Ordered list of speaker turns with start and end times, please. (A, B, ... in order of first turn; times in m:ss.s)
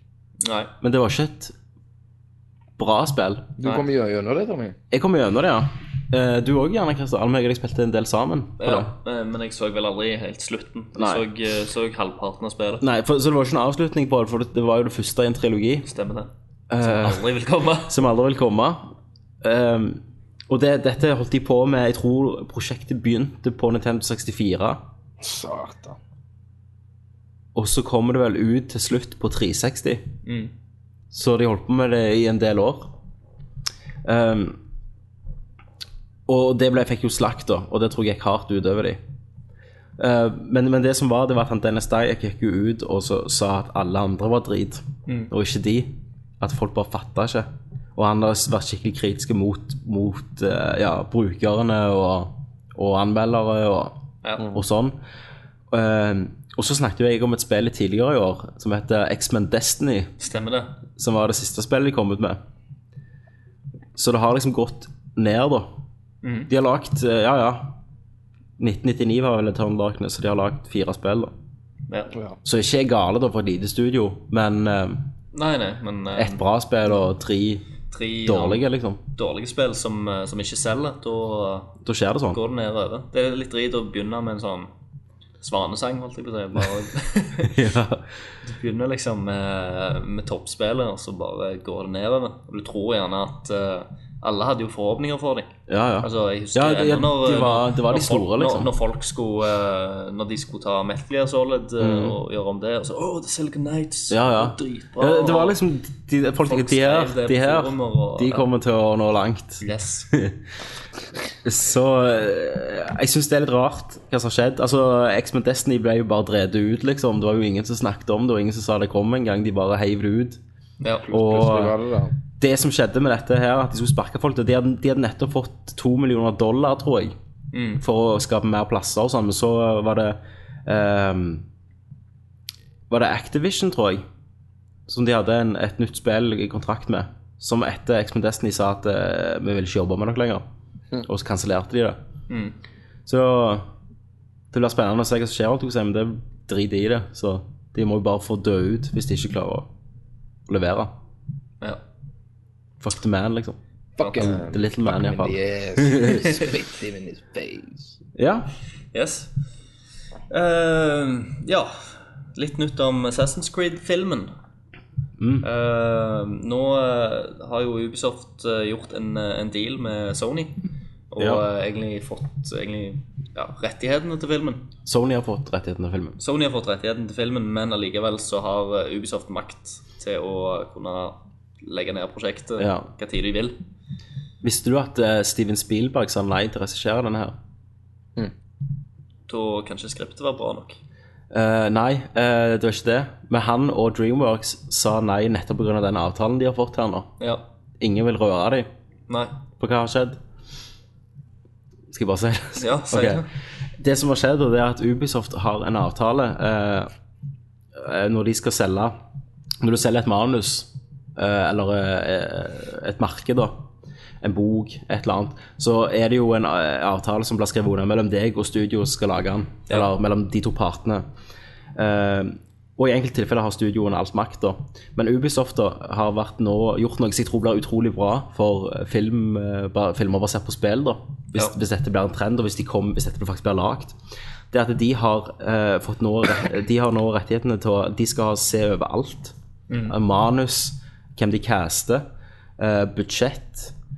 0:00.4-0:00.7 A
0:00.8-0:01.5 B
0:02.8-0:03.5 B
0:03.6-0:04.8 C
0:04.9-0:08.9 B
0:08.6-0:12.8 A
0:11.0-0:11.2 B
0:12.8-0:15.8 B
0:15.8-0:18.0 A
0:16.7-0:17.2 B
0:17.9-0:18.9 B
0:19.4-0:24.8 B
0:25.2-0:26.0 C
0:27.5-0:30.0 B
0:30.2-0:30.5 A
0:31.1-0:32.9 B
0:34.0-0:34.6 B
0:36.3-0:39.0 B
0:40.0-0:54.0 B
0:54.2-0:54.5 A
0:54.5-0:55.0 B
0:55.7-1:00.1 B
1:00.2-1:00.8 A
1:01.0-1:02.4 B
1:04.0-1:05.7 B
1:06.2-1:06.5 A
1:06.5-1:07.7 B
1:08.6-1:11.3 B
1:12.4-1:15.0 B
1:15.3-1:16.4 A
1:16.1-1:17.6 B
1:17.9-1:18.6 A
1:18.2-1:19.0 B
1:19.2-1:21.7 A
1:21.8-1:22.4 B
1:22.3-1:24.7 A
1:25.4-1:27.5 A
1:27.4-1:28.0 B
1:28.4-1:35.5 A
1:35.7-1:38.7 B
1:36.0-1:45.6 A
1:41.8-1:42.2 B
1:44.1-1:50.4 B
1:46.5-1:48.4 A
1:49.6-1:50.1 A
1:51.4-2:00.4 B
2:00.8-2:01.0 A
2:01.1-2:02.1 C
2:01.1-2:01.7 B
2:02.4-2:07.1 B
2:07.5-2:07.8 A
2:07.8-2:11.4 B
2:12.9-2:14.0 B
2:14.9-2:20.4 B
2:21.0-2:22.0 B
2:22.3-2:22.5 A
2:23.0-2:23.7 B
2:24.5-2:29.7 B
2:30.5-2:30.9 B
2:32.8-2:33.6 B
2:34.0-2:38.0 C
2:34.0-2:34.4 A
2:34.2-2:36.3 B
2:38.2-2:38.5 B
2:38.9-2:39.3 A
2:40.3-2:44.3 A
2:45.2-2:45.4 B
2:45.4-2:50.6 A
2:51.1-2:54.7 A
2:51.2-2:51.4 B
2:54.8-2:56.2 B
2:56.2-3:03.6 A
3:02.6-3:02.9 B
3:04.4-3:07.4 B
3:09.3-3:10.8 A
3:11.3-3:17.1 B
3:17.8-3:18.7 B
3:19.1-3:19.3 A
3:19.6-3:20.2 B
3:21.9-3:23.2 B
3:22.6-3:23.3 A
3:23.8-3:26.9 B
3:27.7-3:29.0 B
3:29.6-3:33.6 B
3:34.2-3:41.0 B
3:41.8-3:54.0 B
3:54.5-3:59.3 B
3:59.7-4:00.0 A
3:59.9-4:02.0 B
4:02.6-4:03.7 B